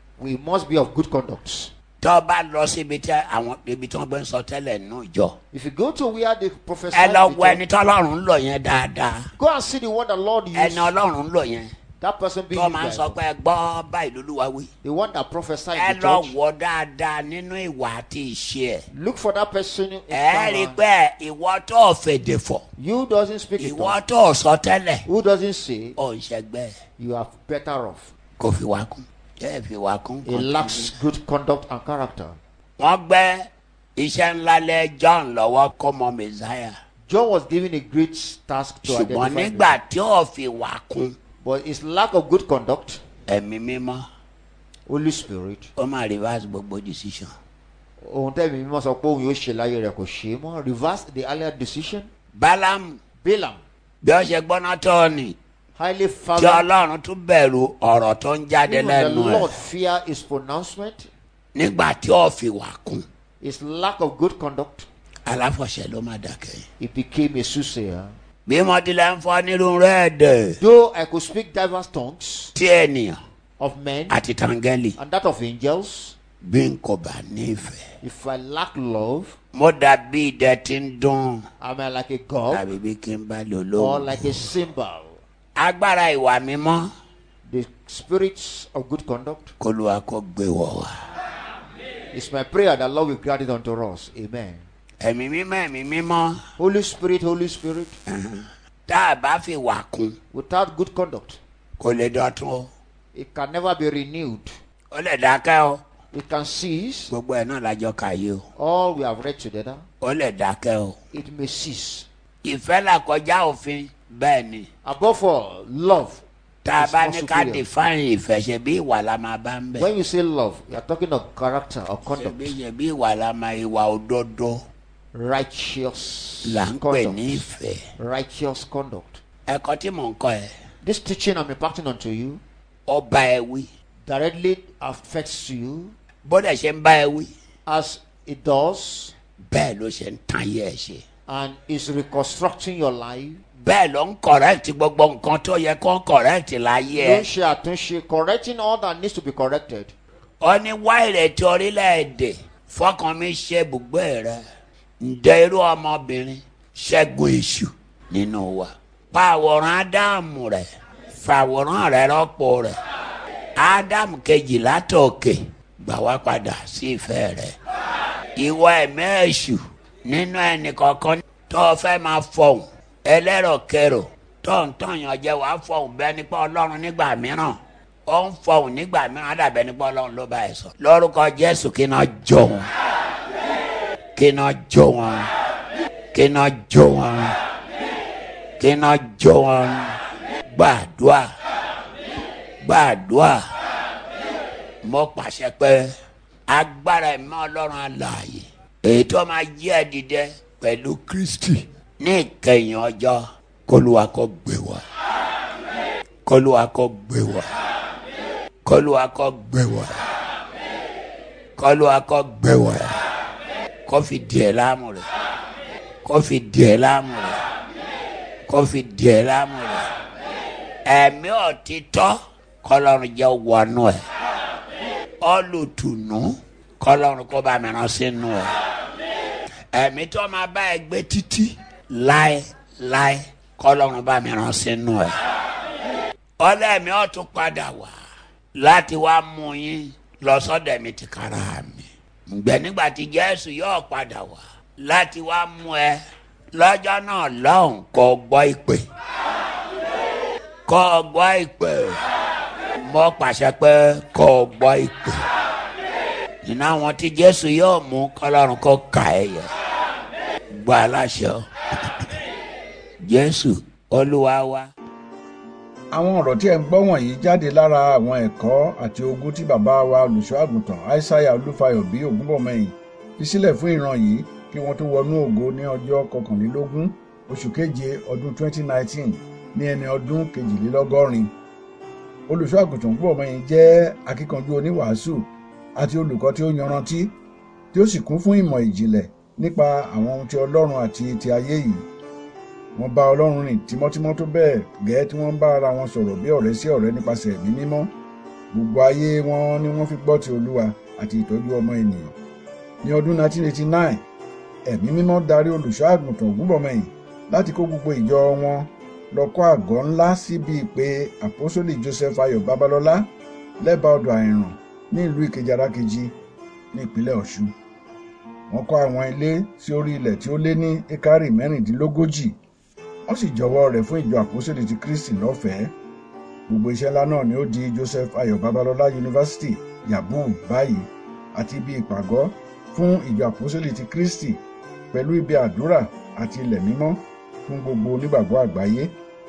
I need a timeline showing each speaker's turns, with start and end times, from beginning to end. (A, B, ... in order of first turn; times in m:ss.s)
0:00.2-0:01.7 A
0:02.0-0:05.4 B
0:05.5-0:07.6 A
0:06.9-0:09.2 B
0:09.4-0:10.9 A
0:10.6-0:11.7 B
0:12.0-0:13.2 A
0:12.5-0:14.7 B
0:14.8-0:16.4 A
0:15.8-0:18.8 B
0:18.9-0:20.8 A
0:20.1-0:22.7 B
0:22.8-0:24.0 A
0:23.6-0:25.1 B
0:25.1-0:26.0 A
0:26.0-0:26.8 B
0:27.0-0:28.1 A
0:28.4-0:31.0 B
0:30.3-0:32.4 A
0:32.8-0:36.8 B
0:37.1-0:39.8 A
0:38.8-0:41.2 B
0:41.4-0:43.0 A
0:43.3-0:44.0 B
0:44.9-0:45.7 A
0:45.8-0:47.3 B
0:48.0-0:52.1 A
0:52.4-0:53.0 B
0:53.2-0:53.6 A
0:54.0-0:55.4 B
0:55.8-0:56.7 A
0:56.4-0:59.6 B
0:58.7-1:01.1 A
1:01.6-1:03.0 B
1:03.4-1:04.9 A
1:05.2-1:06.6 B
1:06.8-1:08.1 A
1:08.5-1:10.6 B
1:10.6-1:12.5 A
1:12.6-1:13.2 B
1:13.6-1:14.2 A
1:14.1-1:15.0 B
1:15.0-1:16.2 A
1:16.4-1:17.8 B
1:18.0-1:19.4 A
1:19.5-1:21.4 B
1:21.6-1:22.7 A
1:22.5-1:24.4 B
1:23.8-1:25.2 A
1:25.6-1:26.9 B
1:27.4-1:29.5 A
1:29.6-1:30.9 B
1:32.1-1:34.7 A
1:35.0-1:36.4 B
1:36.6-1:38.0 A
1:38.1-1:40.2 B
1:40.3-1:41.4 A
1:41.8-1:42.7 B
1:43.1-1:44.5 A
1:44.9-1:45.8 B
1:46.1-1:47.1 A
1:47.1-1:48.4 B
1:48.6-1:49.8 A
1:50.0-1:51.0 B
1:51.1-1:52.1 A
1:52.4-1:54.7 B
1:54.8-1:56.2 A
1:56.6-1:59.9 B
1:56.8-1:57.7 A
1:59.8-2:02.6 A
2:02.2-2:04.6 B
2:05.1-2:07.4 A
2:06.4-2:07.8 B
2:08.0-2:09.2 A
2:09.5-2:10.5 B
2:10.8-2:12.4 A
2:12.9-2:13.7 B
2:14.1-2:15.9 A
2:16.2-2:17.3 B
2:17.7-2:19.1 A
2:19.4-2:21.0 B
2:21.3-2:23.4 A
2:23.6-2:27.3 B
2:26.9-2:29.9 A
2:30.4-2:34.4 B
2:35.0-2:42.8 B
2:43.6-2:47.6 B
2:48.4-3:02.7 B
3:04.2-3:05.3 B
3:06.1-3:07.3 B
3:08.6-3:10.0 B
3:10.5-3:11.3 B
3:12.6-3:13.4 B
3:14.8-3:15.9 B
3:16.5-3:24.8 B
3:26.2-3:27.5 B
3:28.6-3:29.9 B
3:31.6-3:32.9 B
3:33.9-3:35.1 B
3:36.0-3:37.4 B
3:38.5-3:39.8 B
3:40.9-3:44.0 B
3:45.2-3:48.5 B
3:49.7-3:55.1 B
3:56.4-3:58.0 B
3:58.6-4:06.0 B
4:06.5-4:08.8 B
4:10.7-4:12.0 B
4:12.8-4:15.2 B
4:16.4-4:19.5 B
4:20.5-4:21.5 B
4:23.0-4:24.7 B
4:25.9-4:41.3 C
4:42.3-4:47.1 C
4:47.7-4:51.9 C
4:52.8-4:57.9 C
4:58.5-5:02.2 C
5:02.8-5:04.0 C
5:04.7-5:13.1 C
5:13.6-5:16.1 C
5:16.7-5:17.5 C
5:18.5-5:22.4 C
5:23.1-5:25.7 C
5:26.5-5:34.4 C
5:34.9-5:38.9 C